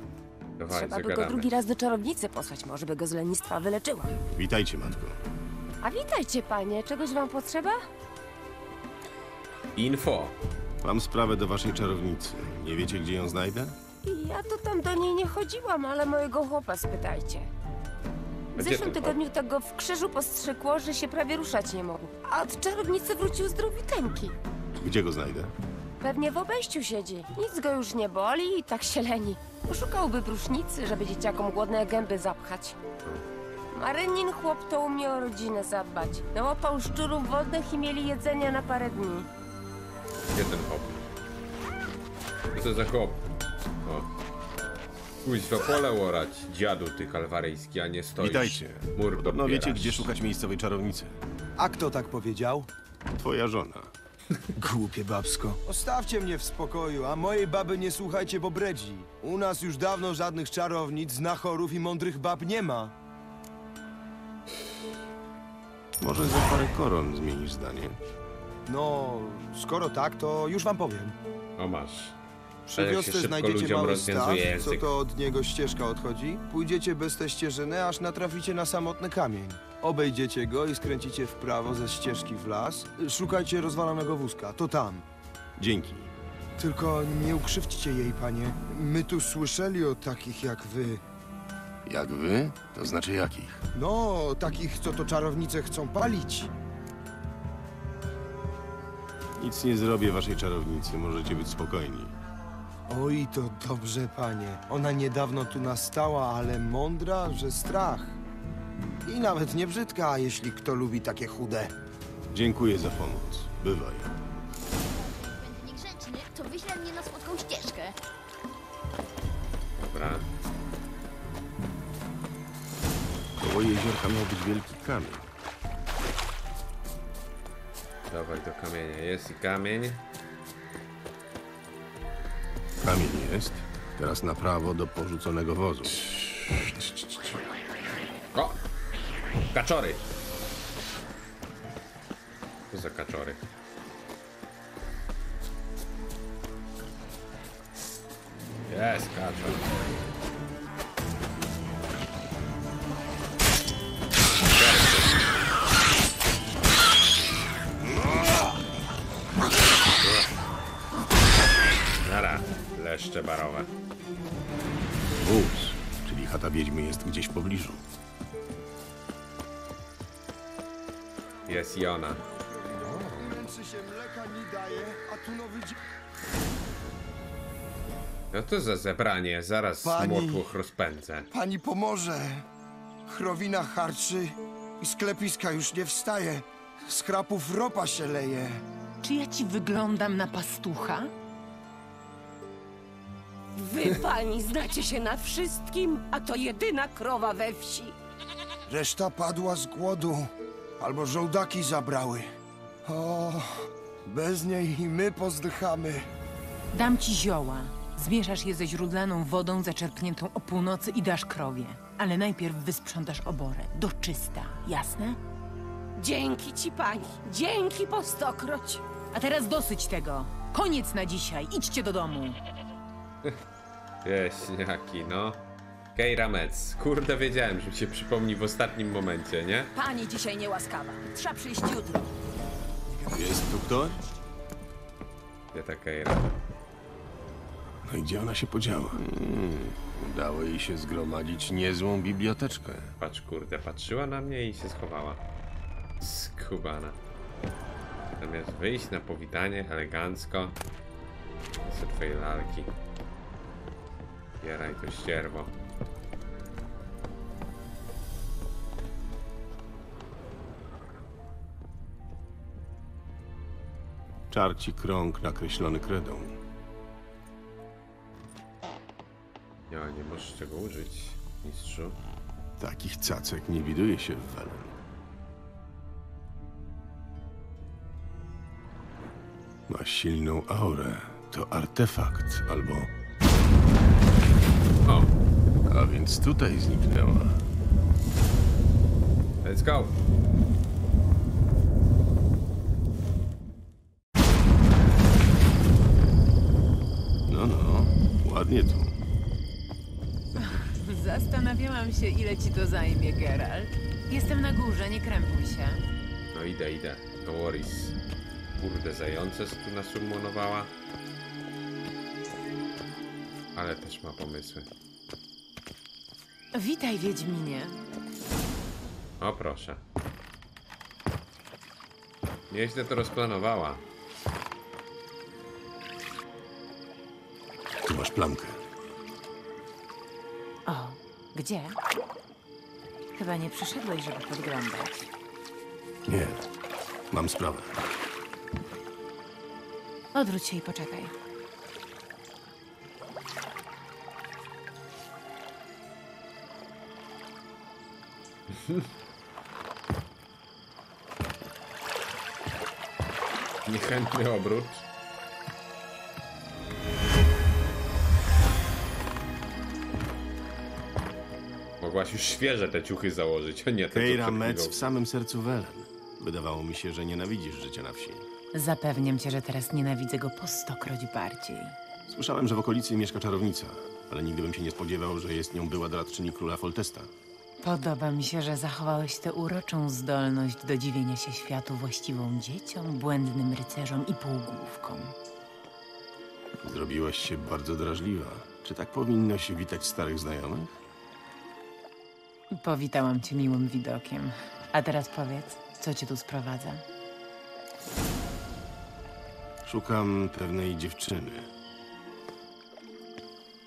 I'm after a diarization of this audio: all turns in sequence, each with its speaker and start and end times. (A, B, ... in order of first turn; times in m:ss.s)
0:00.6-0:01.5 A
0:00.7-0:04.2 B
0:04.3-0:05.2 C
0:05.8-0:07.8 B
0:09.8-0:10.4 A
0:10.8-0:13.8 C
0:14.0-0:17.5 B
0:18.6-0:19.2 A
0:18.6-0:24.4 B
0:24.8-0:25.5 C
0:26.0-0:32.8 B
0:33.7-0:39.3 B
0:40.3-0:41.1 A
0:42.5-0:43.2 A
0:43.8-0:44.1 A
0:45.2-0:50.1 A
0:48.2-0:51.2 C
0:51.6-0:52.7 D
0:53.2-0:53.9 C
0:54.6-1:02.9 D
1:06.0-1:08.0 C
1:08.7-1:11.2 D
1:11.6-1:12.2 A
1:12.7-1:25.0 D
1:12.8-1:14.9 A
1:25.6-1:26.1 C
1:26.6-1:31.0 D
1:31.9-1:33.6 C
1:33.8-1:36.5 D
1:39.4-1:42.1 C
1:42.9-1:48.2 D
1:49.1-1:51.7 D
1:52.3-1:54.1 C
1:55.0-1:58.0 E
1:59.8-2:00.3 A
2:03.4-2:05.3 C
2:08.1-2:10.0 A
2:12.8-2:16.0 C
2:16.0-2:17.3 A
2:19.5-2:20.1 A
2:22.7-2:23.4 A
2:28.7-2:29.7 A
2:34.4-2:35.2 A
2:40.0-2:40.4 A
2:42.0-2:43.7 A
2:45.2-2:47.8 C
2:51.5-2:52.2 A
2:52.4-2:55.8 D
2:52.8-2:53.4 A
2:58.3-3:01.3 A
2:59.8-3:00.4 D
3:01.3-3:02.5 D
3:03.1-3:08.6 D
3:09.0-3:11.1 F
3:13.6-3:14.9 B
3:13.6-3:17.9 G
3:15.4-3:16.3 B
3:17.6-3:17.9 B
3:18.7-3:20.3 D
3:20.8-3:22.3 D
3:22.8-3:26.1 D
3:26.7-3:35.2 F
3:36.0-3:38.8 G
3:38.0-3:38.8 B
3:39.1-3:42.4 F
3:44.0-3:45.4 A
3:46.0-3:49.7 A
3:49.8-3:52.1 H
3:53.1-3:54.0 C
3:55.5-3:56.3 A
3:57.9-4:02.9 C
4:03.0-4:05.2 A
4:06.0-4:07.0 A
4:08.2-4:10.6 A
4:11.6-4:12.7 A
4:14.4-4:15.5 A
4:24.3-4:26.4 C
4:29.7-4:32.0 A
4:32.6-4:34.7 C
4:39.7-4:42.9 C
4:44.9-4:45.1 A
4:45.7-4:47.4 C
4:49.4-4:50.0 A
4:57.3-4:59.0 C
5:00.4-5:05.8 F
5:06.3-5:08.0 A
5:08.6-5:10.7 A
5:13.6-5:14.7 A
5:16.5-5:17.8 F
5:19.2-5:19.8 A
5:22.5-5:23.8 A
5:27.8-5:28.6 C
5:30.7-5:31.8 F
5:33.2-5:35.1 F
5:36.1-5:36.4 C
5:37.1-5:37.9 C
5:40.1-5:41.1 F
5:53.6-5:54.8 A
6:01.8-6:04.8 A
6:03.9-6:08.3 C
6:08.5-6:11.8 F
6:12.1-6:17.1 C
6:17.6-6:25.1 F
6:26.6-6:30.8 C
6:32.5-6:36.8 F
6:39.6-6:41.5 C